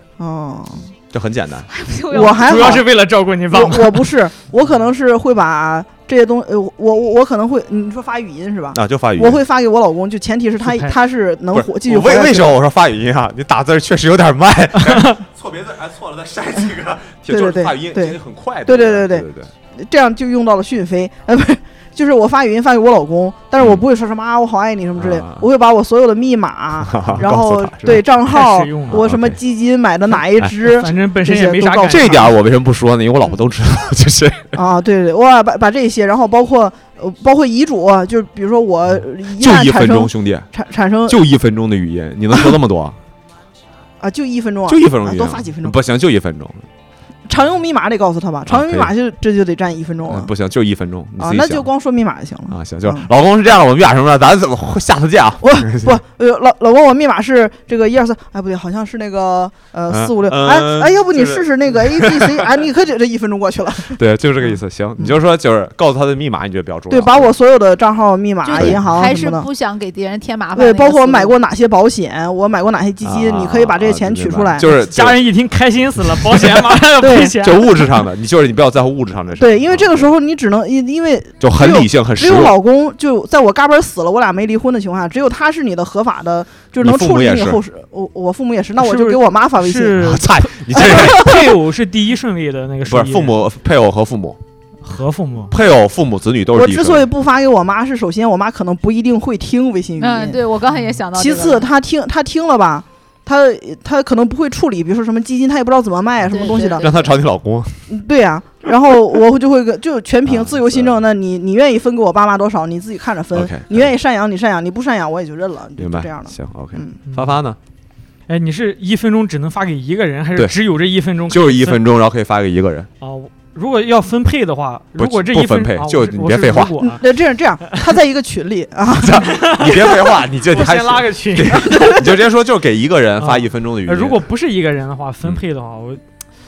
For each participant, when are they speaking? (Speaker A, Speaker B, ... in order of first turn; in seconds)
Speaker A: 0.2-0.9, 2.1-2.9, 3.5-12.5, 17.3-32.3, 34.5-41.2, 44.0-45.8, 47.3-50.3, 51.2-53.1, 55.4-64.0, 66.9-69.5, 70.5-74.7, 77.0-77.3, 79.4-90.1, 90.8-91.4, 96.5-100.4, 101.1-106.9, 107.9-117.0, 126.8-129.9
Speaker B: 1.1-1.7, 8.7-9.4, 11.5-19.5, 23.6-23.8, 24.9-25.4, 26.8-28.0, 28.9-29.4, 31.9-34.6, 39.0-40.5, 41.1-43.0, 44.6-46.7, 48.5-48.9, 50.0-51.7, 52.5-56.0, 59.9-62.4, 63.9-67.3, 68.5-68.8, 73.0-75.2, 77.3-80.1, 81.4-82.6, 86.8-87.6, 90.0-91.5, 92.8-94.4, 95.5-97.1, 106.6-107.8, 110.2-111.0, 113.3-113.9, 115.8-117.6, 121.3-122.9, 125.0-126.9, 128.9-134.2
Speaker C: 1.7-2.8, 68.4-71.3, 100.0-101.7, 106.2-107.1
Speaker D: 2.3-4.2, 10.6-11.0, 28.2-29.1, 30.6-32.3, 74.6-77.8, 88.8-93.4, 94.8-95.5, 117.1-117.3, 118.3-121.8, 123.0-127.2, 129.2-132.1, 133.2-136.0